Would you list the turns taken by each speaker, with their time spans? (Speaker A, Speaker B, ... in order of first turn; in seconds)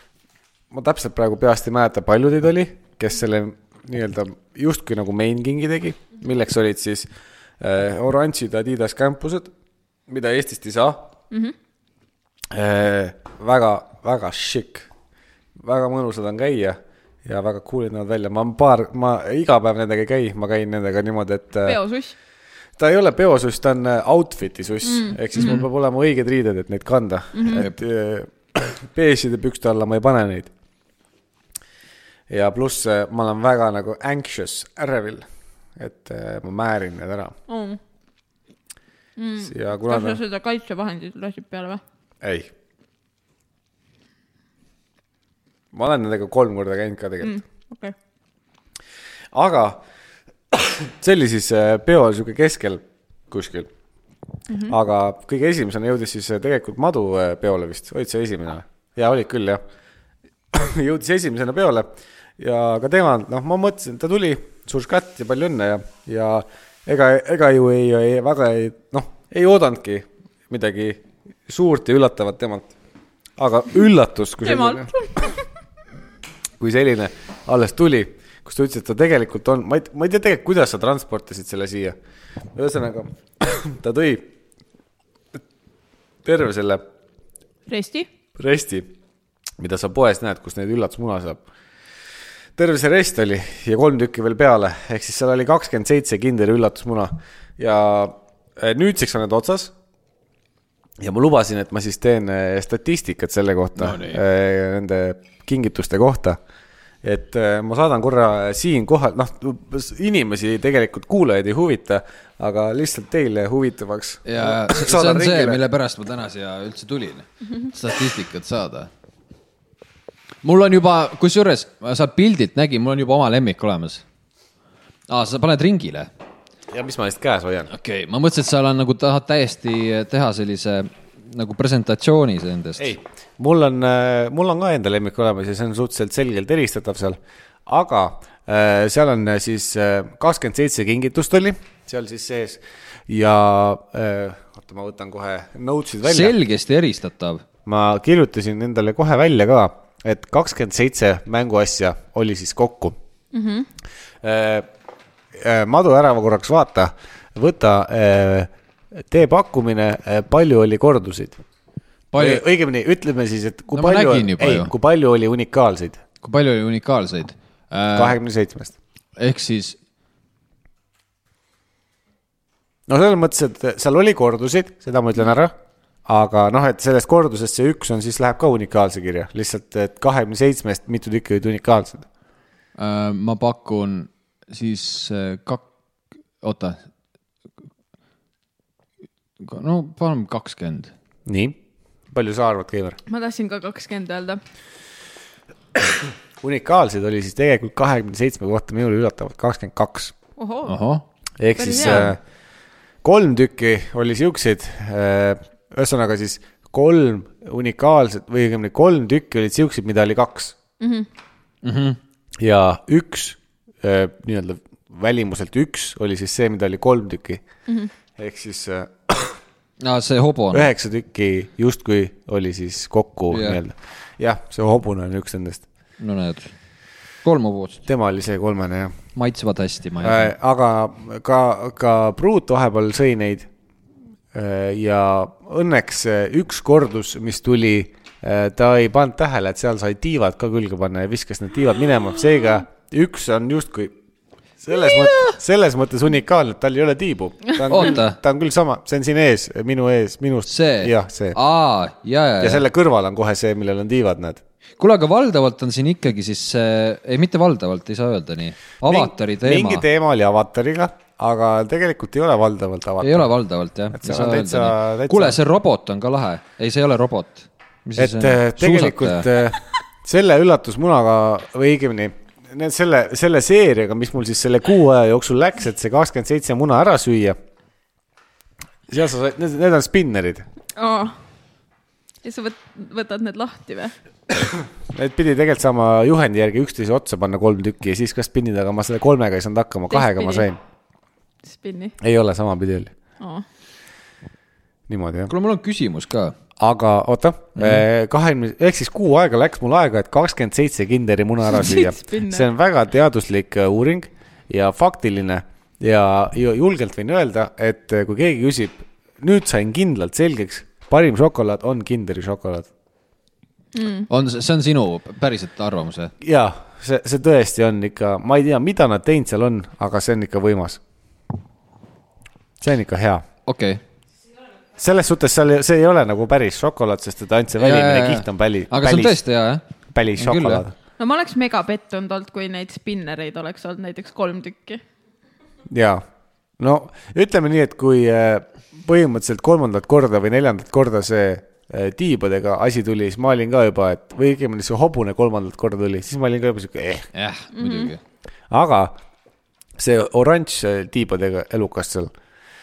Speaker A: 0.7-7.1, 7.6-9.5, 10.1-11.1, 12.5-14.9, 15.6-21.8, 22.8-30.5, 32.3-35.3, 35.8-37.4, 39.4-40.2, 42.2-42.5, 45.7-47.4, 49.3-49.8, 50.5-53.7, 54.7-59.6, 60.5-72.7, 73.4-74.9, 76.6-82.0, 82.5-84.3, 86.2-86.8, 88.4-88.9, 89.6-91.4, 92.6-99.7, 101.0-106.4, 107.0-115.6, 126.7-127.7, 132.8-146.4, 147.7-153.0, 154.2-154.7, 155.3-161.4, 162.2-166.0, 168.0-168.8, 172.9-175.5, 176.1-182.1, 191.3-191.6, 192.1-193.0, 196.4-200.1, 201.4-202.2, 203.0-210.6, 212.4-217.4, 218.2-219.4, 220.5-225.6, 227.9-229.0, 230.0-233.5, 234.3-243.9, 244.6-251.4, 252.4-254.4, 258.8-263.3, 263.9-265.4, 268.0-277.4, 278.9-280.5, 284.9-290.6, 292.0-292.9, 294.9-295.3, 296.6-312.7, 316.2-320.8, 322.6-323.3, 324.8-329.2, 329.9-330.8, 335.7-336.1, 336.6-347.1, 348.5-349.0, 349.8-352.1
Speaker B: 21.6-22.1, 24.8-25.6, 27.3-27.6, 37.5-37.8, 39.2-41.8, 47.2-48.0, 54.5-54.8, 74.4-75.5, 87.7-88.1, 153.3-153.7, 193.1-194.4, 200.4-200.7, 201.6-202.1, 210.8-211.1, 280.8-281.2, 282.2-283.9, 289.9-290.5, 291.5-292.0, 301.5-302.5, 313.7-314.1, 331.0-334.8, 347.6-347.9
Speaker C: 103.8-104.2, 114.3-118.9, 120.4-124.0, 125.1-126.1, 127.7-132.9, 146.0-147.4, 162.1-162.4, 163.7-164.7, 166.2-168.2, 169.2-169.8, 182.8-185.7, 186.4-186.8, 189.4-190.9, 200.7-201.1, 201.8-202.1, 211.6-212.0, 219.8-220.7, 223.3-223.6, 226.0-226.5, 227.2-227.8, 229.2-230.3, 247.7-248.2, 250.5-252.7, 254.8-259.9, 263.0-269.3, 295.3-296.4, 297.6-297.8, 314.1-316.1, 323.5-323.8, 327.6-329.6, 330.2-330.6, 347.1-348.0